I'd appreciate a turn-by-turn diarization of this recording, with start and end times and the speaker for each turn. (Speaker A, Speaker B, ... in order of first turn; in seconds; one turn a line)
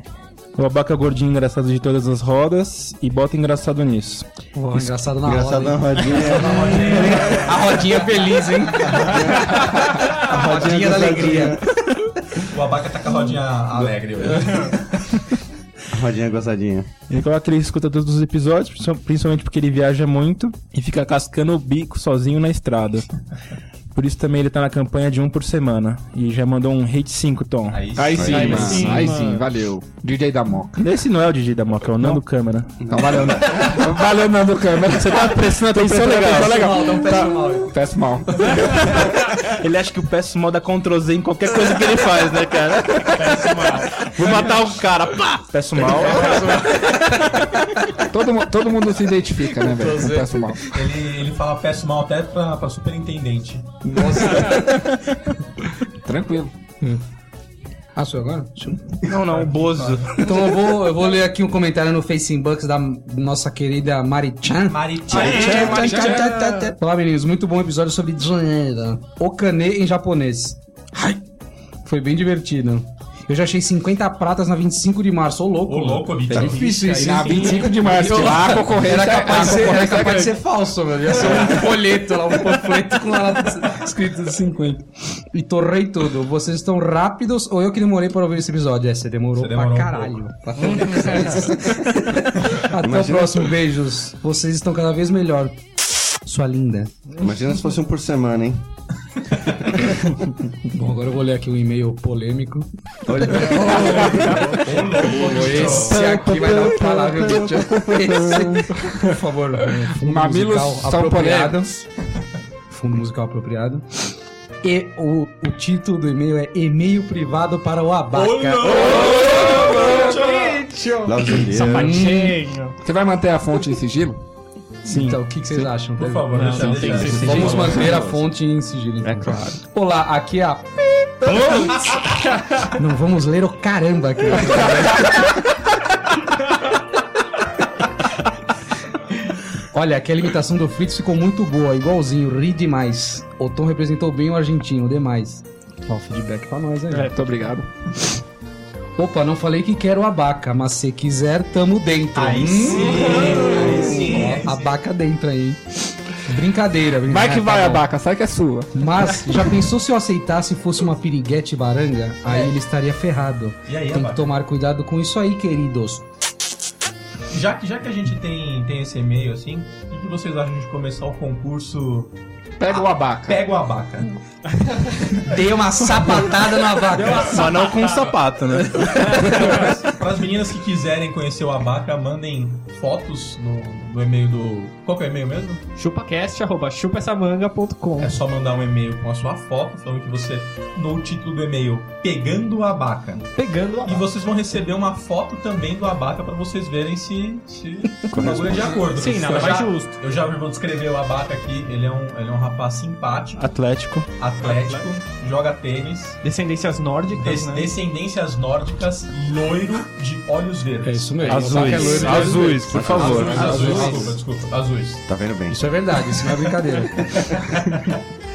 Speaker A: 0.6-4.2
Speaker B: 4.5-11.6
Speaker C: 5.2-7.2
Speaker D: 6.0-7.9
Speaker C: 9.0-9.6
Speaker A: 10.3-11.6
Speaker C: 10.4-11.2
Speaker D: 12.4-15.2
Speaker C: 15.9-16.9
Speaker A: 17.1-23.1
Speaker A: 23.9-28.5
Speaker D: 27.7-28.5
Speaker E: 27.9-30.8
Speaker C: 28.1-29.0
Speaker F: 28.3-29.4
Speaker A: 30.8-32.8
Speaker C: 32.8-33.9
Speaker E: 32.8-39.0
Speaker A: 34.9-37.0
Speaker B: 36.4-37.7
Speaker A: 38.5-46.4
Speaker F: 43.2-44.0
Speaker B: 45.8-47.6
Speaker D: 46.0-46.4
Speaker F: 46.2-46.7
Speaker E: 47.9-50.7
Speaker B: 49.5-50.6
Speaker D: 50.7-53.8
Speaker B: 53.8-54.9
Speaker E: 54.1-54.5
Speaker E: 56.0-56.5
Speaker B: 58.0-59.0
Speaker A: 59.0-60.2
Speaker D: 59.5-60.1
Speaker B: 60.1-71.2
Speaker D: 64.6-66.2
Speaker C: 65.1-65.6
Speaker F: 65.2-66.6
Speaker A: 65.7-66.1
Speaker B: 71.8-96.9
Speaker D: 75.7-78.7
Speaker E: 76.8-80.4
Speaker D: 89.4-90.2
Speaker C: 92.7-93.5
Speaker C: 97.2-98.7
Speaker C: 99.7-100.0
Speaker B: 100.6-111.8
Speaker C: 103.0-104.4
Speaker D: 103.7-106.1
Speaker F: 106.0-106.2
Speaker E: 110.0-111.7
Speaker B: 112.7-114.1
Speaker B: 114.6-118.8
Speaker D: 118.1-120.7
Speaker E: 118.7-120.0
Speaker F: 118.8-122.8
Speaker C: 121.0-122.0
Speaker B: 121.7-122.4
Speaker E: 122.8-124.2
Speaker A: 124.8-125.7
Speaker B: 124.8-132.0
Speaker D: 126.0-128.0
Speaker A: 126.3-128.1
Speaker E: 126.4-128.0
Speaker F: 126.8-127.8
Speaker A: 129.1-129.4
Speaker F: 131.3-131.7
Speaker B: 132.6-135.2
Speaker B: 139.7-147.1
Speaker E: 146.9-147.7
Speaker B: 149.0-157.8
Speaker D: 152.1-154.8
Speaker E: 157.1-158.8
Speaker B: 158.7-166.1
Speaker D: 163.7-164.3
Speaker D: 167.3-172.1
Speaker E: 172.6-173.4
Speaker D: 172.7-174.2
Speaker F: 174.6-174.9
Speaker B: 175.1-177.7
Speaker F: 176.9-179.7
Speaker A: 177.1-179.5
Speaker D: 178.9-185.6
Speaker F: 185.8-188.1
Speaker D: 188.0-193.2
Speaker F: 193.3-194.1
Speaker D: 193.8-203.5
Speaker C: 198.1-198.8
Speaker F: 198.9-199.9
Speaker A: 203.3-204.1
Speaker D: 204.2-206.2
Speaker F: 204.4-204.9
Speaker F: 206.2-207.7
Speaker D: 207.2-215.0
Speaker B: 210.8-214.2
Speaker A: 211.2-214.0
Speaker F: 211.7-212.5
Speaker C: 212.7-213.3
Speaker C: 215.1-215.6
Speaker B: 215.5-217.4
Speaker D: 217.3-217.9